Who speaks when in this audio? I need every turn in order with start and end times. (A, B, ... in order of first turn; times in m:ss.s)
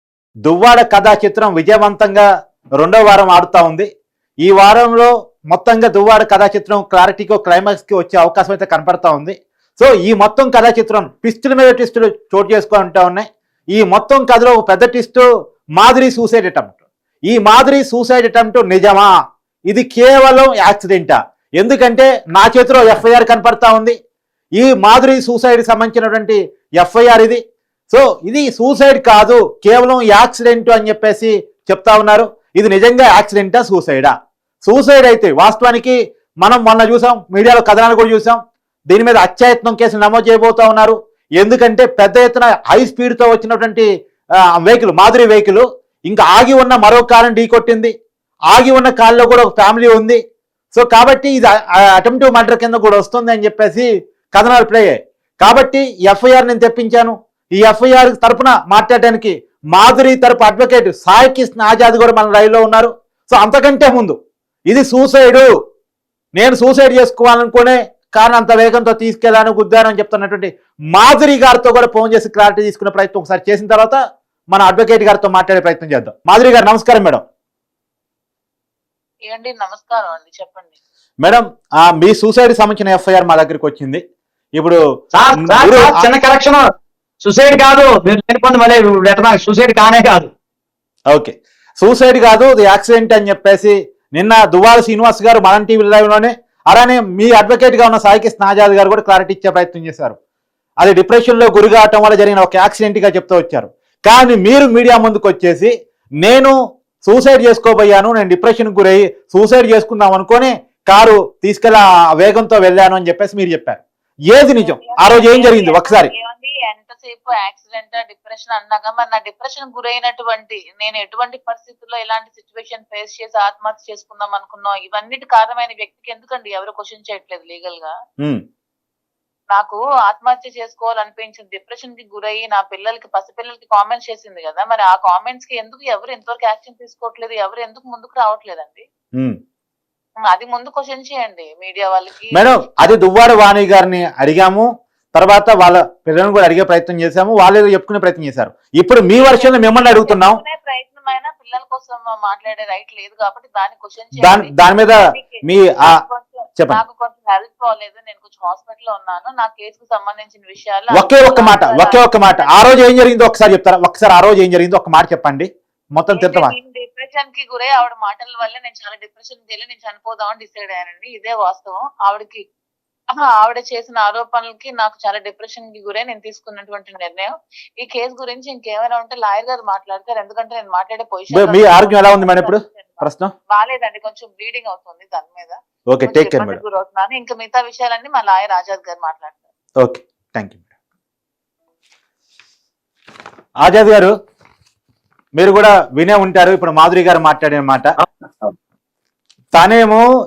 0:00.5-0:02.3 A
0:02.8-0:03.9 A
0:04.4-0:15.2 A
0:15.8-0:16.8 A
0:17.3-0:19.1 A
0:19.7-0:24.0 A
0:24.6-0:27.4 A
0:27.9-0:34.1 A
0:34.6-0:38.4 A
0:38.9-0:43.9 A
0:44.6-0:47.9 A
0:48.5-0:50.2 A
0:50.7-1:04.2 A
1:04.7-1:05.5 A
1:06.4-1:14.0 A
1:14.5-1:17.2 A
1:19.3-1:20.8 B
1:21.2-1:24.0 A
1:25.1-1:26.6 C
1:25.4-1:26.0 A
1:27.2-1:30.3 C
1:31.1-1:40.2 A
1:40.8-1:56.1 A
1:54.6-2:07.9 B
2:09.5-2:18.8 B
2:20.2-2:22.6 B
2:22.3-2:30.4 A
2:29.3-2:42.5 B
2:34.2-2:36.0 A
2:40.9-2:46.5 A
2:46.1-2:52.4 B
2:53.1-3:09.5 B
3:01.3-3:03.3 A
3:05.9-3:06.6 A
3:09.8-3:10.6 A
3:13.6-3:14.1 A
3:15.4-3:17.9 A
3:18.0-3:18.5 C
3:19.5-3:20.0 A